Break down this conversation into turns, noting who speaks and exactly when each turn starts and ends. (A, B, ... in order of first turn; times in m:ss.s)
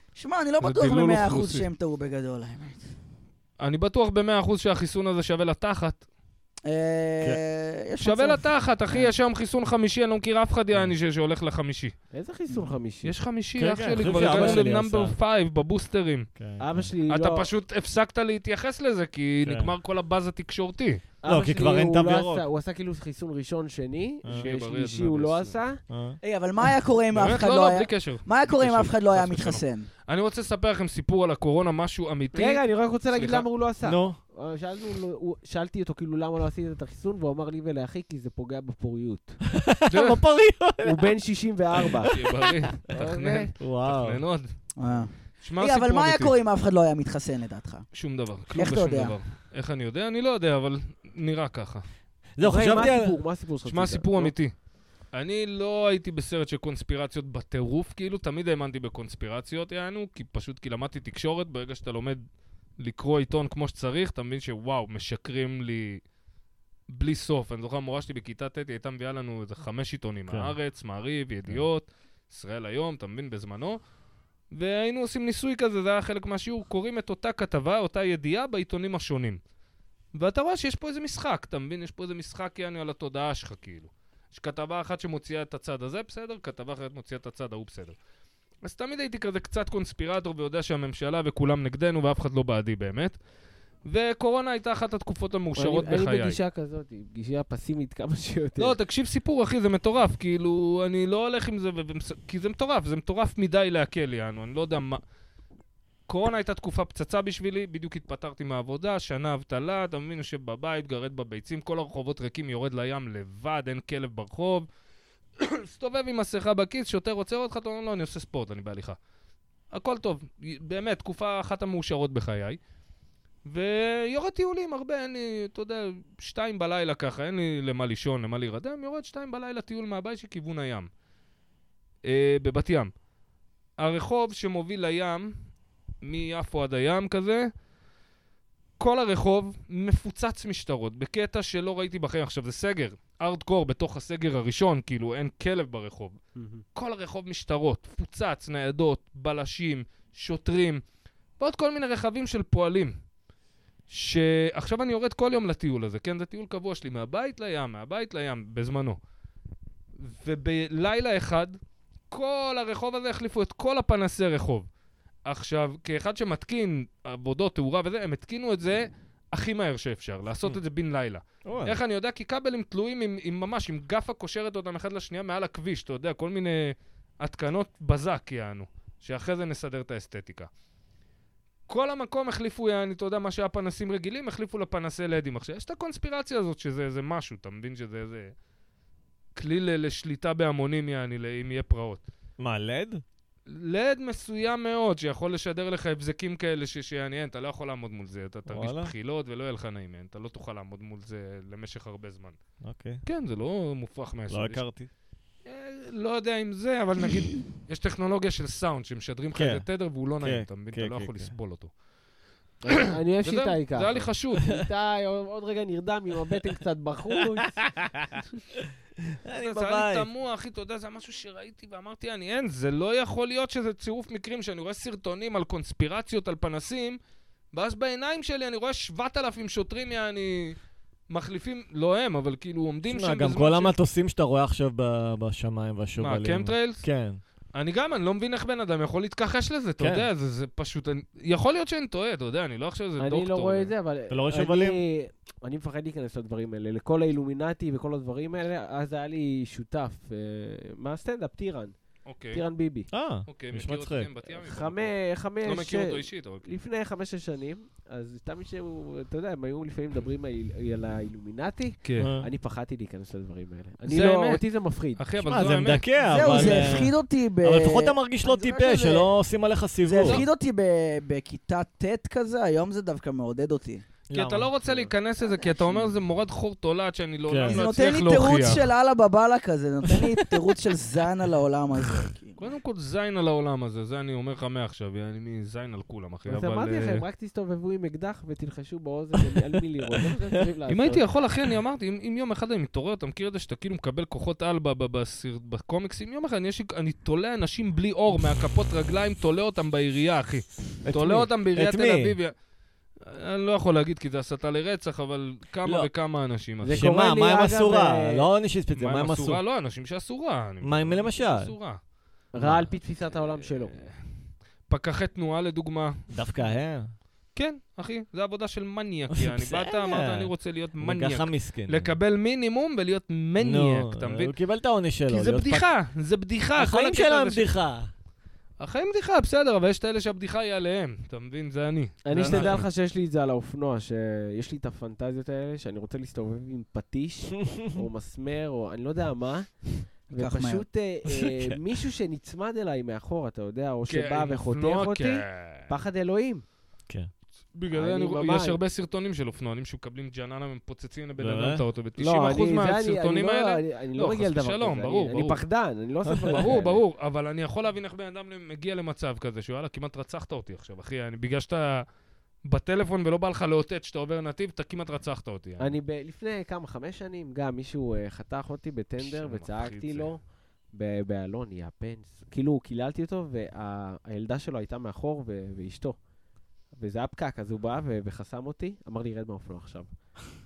0:00.1-0:02.8 A
0:00.6-0:01.7 B
0:03.6-0:06.0 B
0:06.6-0:09.1 A
0:08.0-0:12.0 B
0:12.1-0:13.1 C
0:13.0-0:16.3 B
0:13.6-0:15.2 D
0:14.1-0:14.6 C
0:16.4-0:16.9 D
0:16.6-0:17.5 C
0:17.1-0:21.0 B
0:19.4-0:19.7 D
0:21.2-0:25.8 C
0:21.2-0:22.4 D
0:24.2-0:24.5 D
0:24.3-0:25.6 B
0:25.9-0:26.2 D
0:26.2-0:29.9 A
0:27.1-0:33.4 B
0:32.3-0:39.4 C
0:33.8-0:34.2 D
0:39.5-0:41.1 D
0:39.9-0:40.2 B
0:40.8-0:42.1 C
0:41.8-0:42.6 D
0:42.0-0:44.5 B
0:42.9-0:43.5 C
0:43.6-0:44.2 D
0:44.8-0:47.8 A
0:45.4-0:46.3 B
0:47.9-0:51.8 B
0:48.5-0:49.2 A
0:52.4-0:53.2 D
0:52.4-0:54.3 C
0:53.6-0:54.5 B
0:55.1-1:02.2 B
1:02.8-1:06.0 B
1:06.9-1:13.8 B
1:10.3-1:10.5 D
1:14.5-1:19.4 B
1:20.1-1:28.0 B
1:28.6-1:33.2 B
1:33.8-1:36.4 B
1:35.6-1:38.8 C
1:38.6-1:45.0 B
1:46.1-1:54.6 B
1:55.4-1:59.0 B
1:59.7-2:02.6 B
2:03.4-2:10.9 B
2:12.0-2:12.9 B
2:13.8-2:15.3 B
2:16.0-2:17.5 B
2:18.8-2:26.2 B
2:26.4-2:26.6 C
2:26.7-2:30.8 B
2:31.4-2:32.9 B
2:33.9-2:39.0 B
2:40.0-2:41.6 B
2:42.1-2:44.7 B
2:45.2-3:00.5 B
2:51.4-2:51.8 D
3:01.7-3:08.3 B
3:09.4-3:12.0 B
3:12.4-3:13.0 D
3:13.5-3:22.4 B
3:18.5-3:18.9 D
3:22.6-3:23.0 D
3:23.0-3:24.6 B
3:24.3-3:24.9 D
3:25.4-3:31.7 B
3:29.3-3:29.6 D
3:30.2-3:31.3 D
3:32.6-3:37.7 C
3:33.2-3:34.6 B
3:39.1-3:40.1 D
3:39.3-3:47.0 B
3:47.5-3:50.6 B
3:51.1-3:53.7 B
3:52.9-3:57.2 D
3:56.0-3:56.8 B
3:57.5-4:03.7 B
3:59.8-4:00.1 D
4:03.0-4:11.7 C
4:04.1-4:04.8 D
4:12.0-4:12.4 B
4:12.3-4:12.9 C
4:12.9-4:14.1 D
4:13.3-4:16.5 B
4:14.3-4:25.0 C
4:21.8-4:22.1 B
4:22.0-4:22.3 D
4:23.9-4:24.4 B
4:25.0-4:26.8 B
4:25.2-4:30.2 D
4:26.0-4:29.1 A
4:29.8-4:33.8 A
4:30.0-4:30.3 B
4:34.1-4:34.5 D
4:34.1-4:38.7 B
4:34.6-4:34.9 C
4:37.3-4:37.6 D
4:37.4-4:42.4 A
4:42.4-4:47.0 B
4:46.3-4:51.0 C
4:50.7-5:02.3 B
5:00.8-5:02.2 D
5:03.0-5:06.9 B
5:05.6-5:05.9 D
5:06.6-5:08.2 C
5:06.7-5:09.4 D
5:08.8-5:11.8 B
5:10.6-5:11.5 D
5:12.3-5:13.8 C
5:12.4-5:12.7 D
5:13.2-5:14.0 B
5:14.7-5:16.0 B
5:16.1-5:16.9 D
5:17.4-5:24.3 B
5:19.1-5:21.9 D
5:23.4-5:25.6 D
5:25.1-5:27.5 B
5:26.5-5:27.9 D
5:28.6-5:32.6 B
5:32.0-5:46.4 C
5:32.1-5:32.6 D
5:37.5-5:37.8 D
5:40.1-5:40.6 A
5:43.9-5:45.7 B
5:47.5-5:55.4 B
5:47.7-5:48.6 C
5:51.2-5:51.6 D
5:52.0-5:56.8 C
5:56.3-6:01.8 B
6:02.4-6:05.8 B
6:05.6-6:10.2 C
6:09.0-6:10.1 B
6:10.7-6:16.0 C
6:16.7-6:19.9 C